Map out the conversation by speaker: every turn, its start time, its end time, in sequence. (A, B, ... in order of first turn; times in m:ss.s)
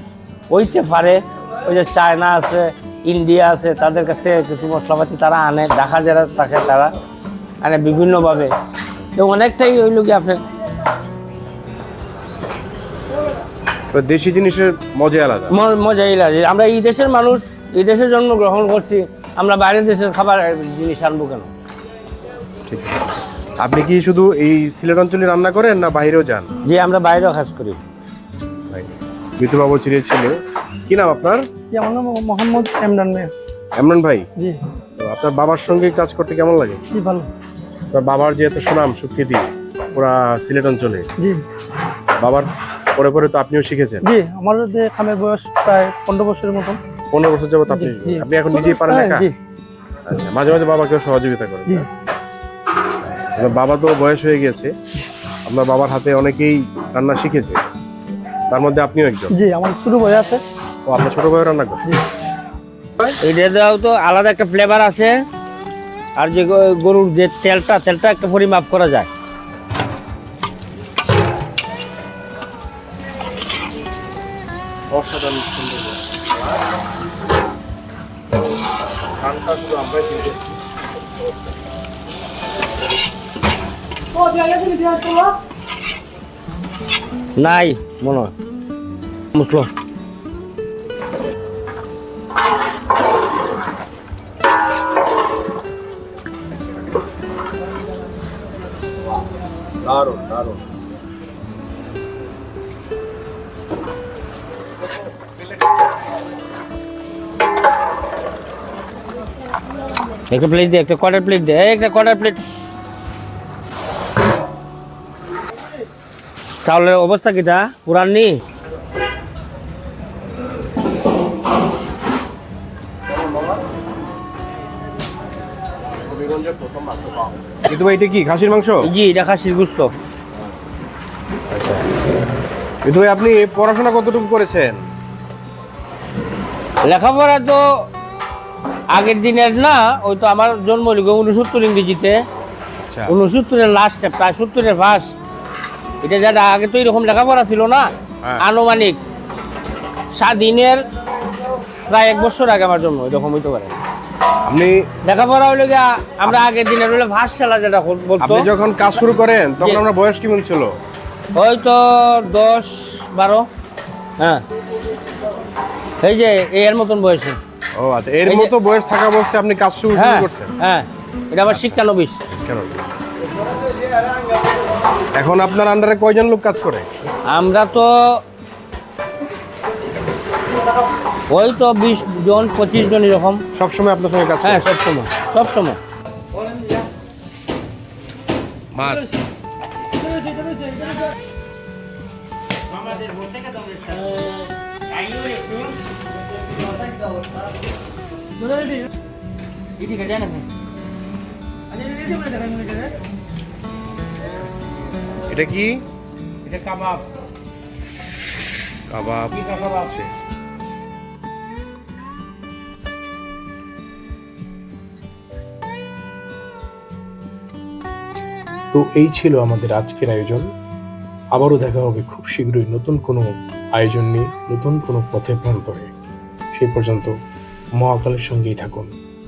0:00.5-0:06.9 A
0:07.6-0:08.5 A
0:09.2-0:10.4 A
0:13.9-0:15.6 B
0:15.5-0:21.5 A
0:22.7-0:26.5 B
0:26.6-0:27.8 A
0:28.7-0:30.3 B
0:30.9-0:31.4 B
0:31.7-0:33.3 C
0:33.8-0:34.3 B
0:35.0-0:36.8 B
0:36.9-0:37.3 C
0:37.9-0:41.1 B
0:42.2-0:44.1 B
0:44.0-0:46.8 C
0:47.1-0:49.3 B
0:47.8-0:49.4 C
0:50.1-0:51.9 B
0:53.1-0:54.7 B
0:55.5-0:57.6 B
0:58.5-0:59.3 B
0:59.3-1:00.4 C
1:00.9-1:01.9 B
1:03.2-1:05.1 A
1:06.2-1:09.1 A
1:14.9-1:16.5 B
1:19.2-1:20.5 B
1:27.4-1:28.3 A
1:29.3-1:29.7 A
1:39.8-1:40.6 B
1:50.3-1:52.4 A
1:56.6-1:58.4 A
2:03.2-2:03.6 B
2:06.0-2:08.9 B
2:08.8-2:09.9 A
2:11.5-2:11.9 B
2:12.8-2:14.8 B
2:16.8-2:17.6 A
2:18.9-2:22.2 A
2:22.9-2:23.1 B
2:23.1-2:25.2 A
2:26.0-2:29.0 A
2:30.1-2:30.8 A
2:31.9-2:33.8 A
2:34.5-2:34.8 B
2:35.0-2:38.5 A
2:38.2-2:40.7 B
2:41.4-2:43.5 A
2:46.0-2:47.4 A
2:47.8-2:50.5 B
2:48.3-2:48.5 A
2:50.0-2:52.2 A
2:51.5-2:53.0 B
2:55.2-2:56.9 B
2:57.3-2:58.2 A
3:01.3-3:03.4 A
3:03.5-3:04.7 B
3:04.4-3:05.8 A
3:08.7-3:09.2 B
3:12.7-3:15.8 A
3:19.8-3:20.4 A
3:22.4-3:22.7 A
3:25.3-3:25.8 B
3:26.4-3:27.0 A
3:28.9-3:30.1 B
3:29.3-3:29.9 A
3:38.7-3:40.5 B
3:41.4-3:45.9 B
3:46.6-3:47.1 B
3:47.8-3:48.9 B